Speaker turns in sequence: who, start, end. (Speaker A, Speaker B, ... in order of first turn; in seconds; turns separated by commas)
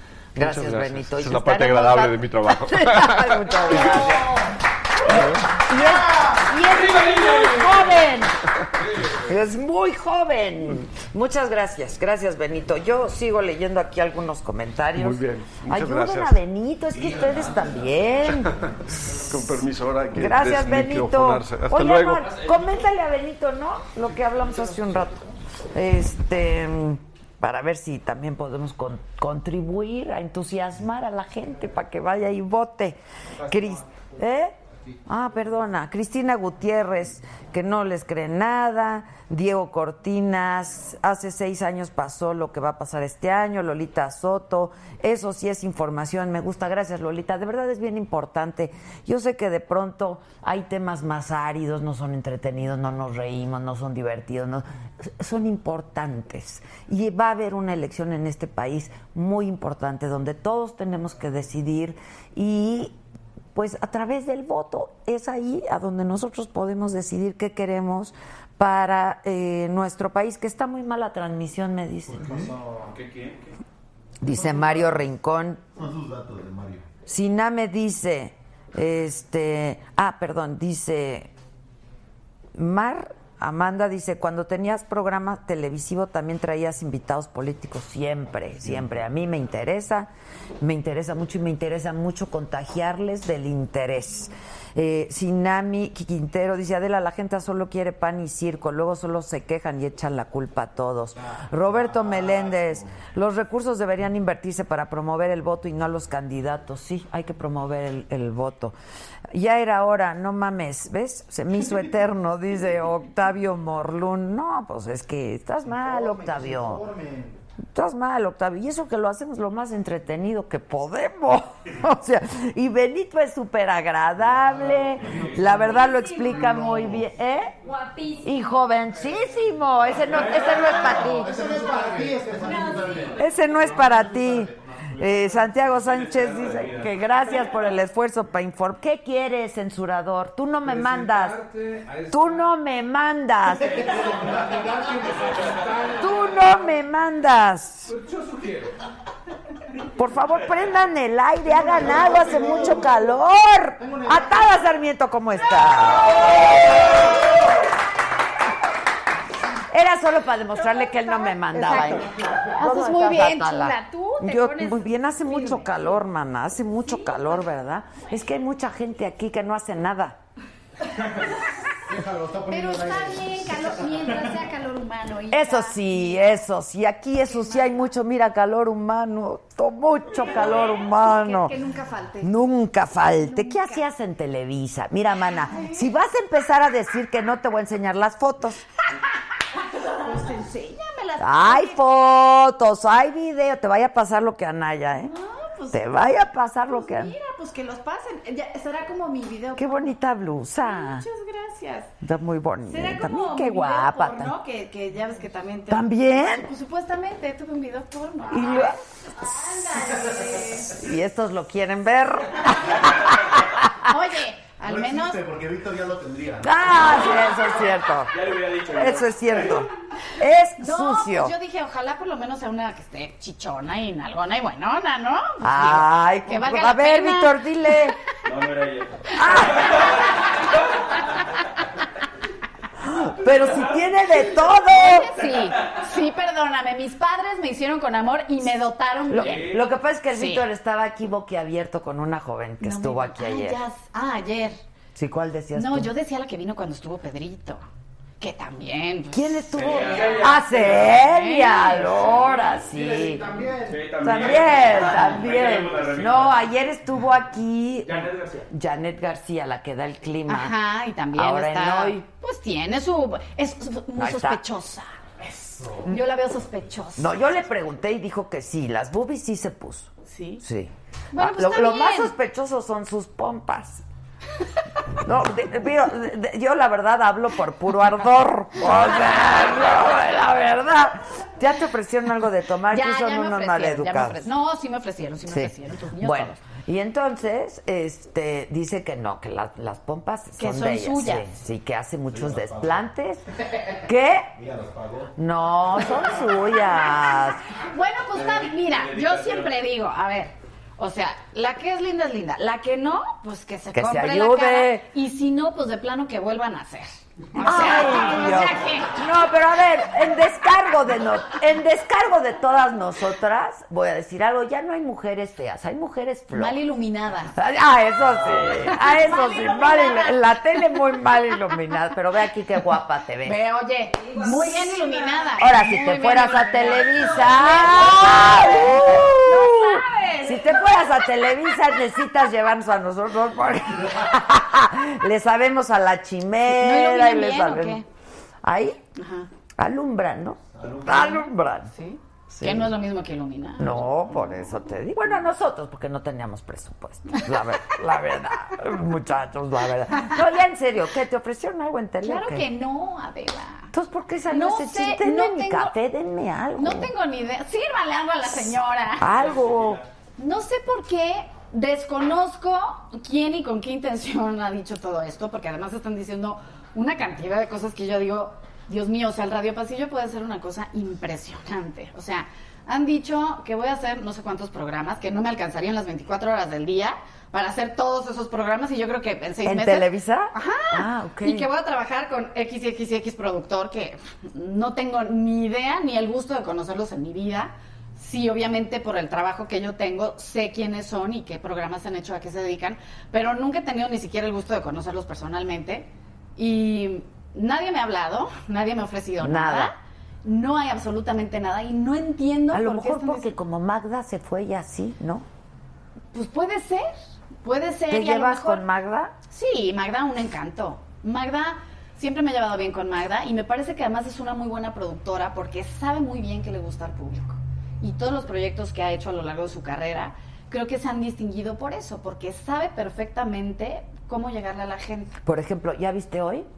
Speaker A: 0.3-4.2, Speaker B: 0.3-4.4, Speaker B: 5.1-8.4, Speaker A: 5.1-5.4, Speaker B: 9.1-18.6, Speaker A: 14.9-16.4, Speaker A: 18.2-22.4, Speaker B: 20.1-62.9, Speaker B: 63.5-72.3, Speaker C: 72.1-72.5, Speaker D: 72.8-73.5, Speaker B: 74.2-75.6, Speaker C: 75.8-76.8, Speaker B: 77.0-81.3, Speaker B: 82.5-90.1, Speaker B: 90.6-108.7, Speaker B: 109.3-116.8, Speaker C: 116.8-117.2, Speaker B: 117.7-131.3, Speaker E: 125.1-125.4, Speaker C: 131.0-133.5, Speaker E: 131.3-132.8, Speaker B: 133.1-141.4, Speaker C: 134.2-134.6, Speaker D: 135.8-136.9, Speaker E: 140.6-142.4, Speaker B: 142.1-143.8, Speaker E: 143.7-146.2, Speaker B: 146.0-147.9, Speaker E: 147.9-148.8, Speaker B: 149.9-156.8, Speaker C: 151.6-152.8, Speaker B: 159.7-170.2, Speaker F: 160.6-165.8, Speaker F: 166.9-167.3, Speaker C: 171.9-173.6, Speaker F: 172.4-176.3, Speaker B: 175.3-181.6, Speaker F: 177.2-177.8, Speaker F: 180.2-182.3, Speaker B: 182.2-188.6, Speaker F: 183.1-183.8, Speaker F: 185.5-185.8, Speaker F: 189.7-191.8, Speaker B: 191.2-195.2, Speaker F: 195.1-195.8, Speaker B: 195.7-197.1, Speaker F: 196.7-199.9, Speaker B: 199.5-201.1, Speaker F: 200.6-201.9, Speaker B: 202.0-204.3, Speaker F: 202.7-210.7, Speaker B: 205.7-206.5, Speaker B: 208.3-208.8, Speaker B: 210.6-213.9, Speaker F: 213.8-215.2, Speaker C: 214.6-216.6, Speaker B: 216.4-221.3, Speaker D: 218.1-219.6, Speaker F: 220.6-227.8, Speaker B: 225.4-228.0, Speaker D: 228.2-230.0, Speaker B: 229.1-230.0, Speaker B: 232.8-235.1, Speaker F: 234.6-240.4, Speaker B: 239.1-243.6, Speaker D: 239.2-239.6, Speaker F: 242.6-244.6, Speaker B: 244.9-245.9, Speaker F: 245.5-247.6, Speaker F: 248.2-251.9, Speaker B: 249.1-253.3, Speaker D: 249.5-250.9, Speaker C: 252.9-253.7, Speaker E: 253.0-253.5, Speaker D: 253.6-256.5, Speaker B: 254.0-260.6, Speaker D: 257.8-258.5, Speaker F: 260.3-264.9, Speaker B: 261.1-262.0, Speaker B: 263.9-264.4, Speaker F: 265.8-267.2, Speaker B: 267.0-273.8, Speaker F: 270.0-270.4, Speaker F: 271.1-272.1, Speaker B: 274.9-284.3, Speaker F: 282.7-286.4, Speaker B: 285.3-293.2, Speaker F: 290.4-291.3, Speaker C: 292.1-292.8, Speaker B: 293.8-294.3, Speaker C: 294.4-295.1, Speaker B: 295.1-297.4, Speaker F: 297.6-308.9, Speaker D: 298.1-299.6, Speaker B: 303.7-304.9, Speaker B: 307.4-316.6, Speaker F: 316.3-317.3, Speaker B: 317.3-323.4, Speaker F: 318.6-320.6, Speaker F: 323.2-331.0, Speaker B: 325.4-337.8, Speaker F: 336.5-337.8, Speaker B: 338.4-338.8, Speaker F: 338.9-339.3, Speaker B: 339.6-341.7, Speaker C: 340.5-341.2, Speaker F: 341.7-344.3, Speaker B: 342.3-342.7, Speaker B: 343.6-352.4, Speaker F: 352.0-353.7, Speaker B: 353.7-356.9, Speaker F: 354.3-355.7, Speaker F: 356.6-359.1, Speaker B: 359.0-359.8, Speaker F: 360.2-403.3, Speaker B: 379.4-381.5, Speaker B: 399.2-399.7, Speaker B: 402.5-405.2, Speaker F: 406.1-408.6, Speaker B: 407.9-409.1, Speaker F: 409.3-425.1, Speaker B: 425.2-426.5